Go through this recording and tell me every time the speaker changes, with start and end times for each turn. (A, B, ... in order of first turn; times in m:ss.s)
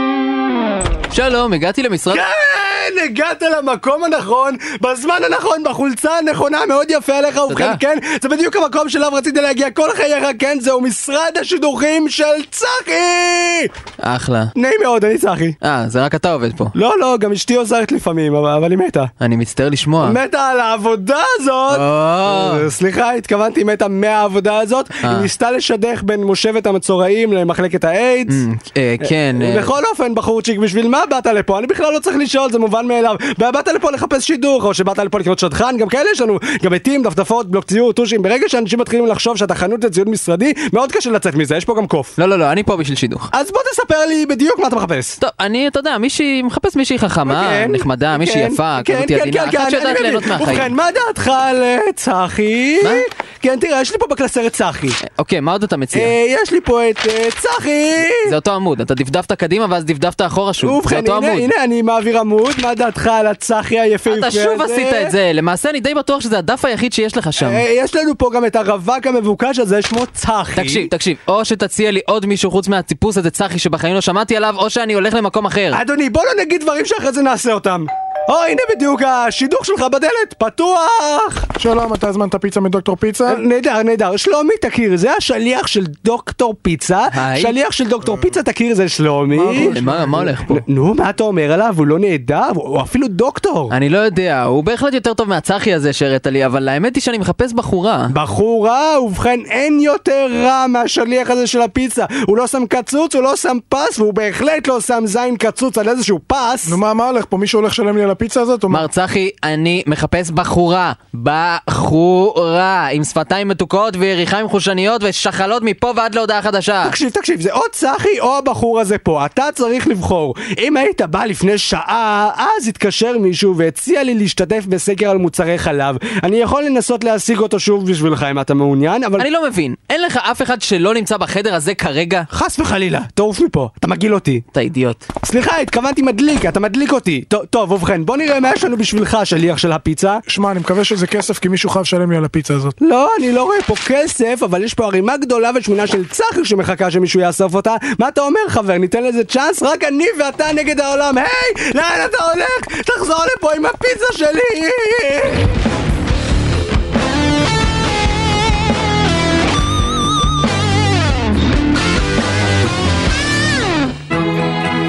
0:01.1-0:02.2 A
0:02.1-0:13.7 B
0:07.5-0:07.8 A
0:14.0-0:14.5 A
0:14.6-0:15.6 B
0:15.6-0:16.7 A
0:16.7-0:19.1 B
0:19.2-0:20.2 A
0:20.0-0:28.4 B
0:21.7-0:22.7 A
0:25.0-0:25.3 A
0:28.3-0:29.7 A
0:29.0-0:42.1 B
0:42.2-0:43.3 A
0:43.3-0:45.2 B
0:45.2-0:50.7 A
0:47.2-0:55.0 B
0:55.0-0:56.1 A
0:55.9-0:58.4 B
0:58.2-1:01.5 A
1:00.6-1:05.1 B
1:04.0-1:07.6 A
1:07.4-1:10.9 B
1:10.5-1:15.8 A
1:15.7-1:21.5 B
1:21.6-1:23.4 C
1:23.2-1:29.8 B
1:27.1-1:27.5 A
1:29.3-1:30.6 C
1:29.5-1:30.6 A
1:30.4-1:33.7 B
1:33.7-1:38.1 A
1:38.1-1:46.8 B
1:46.6-1:48.8 C
1:48.7-1:57.0 A
1:56.8-2:09.3 B
2:09.2-2:12.3 A
2:12.3-2:14.4 B
2:14.5-2:15.0 A
2:15.2-2:20.2 B
2:20.3-2:22.7 C
2:22.8-2:35.5 B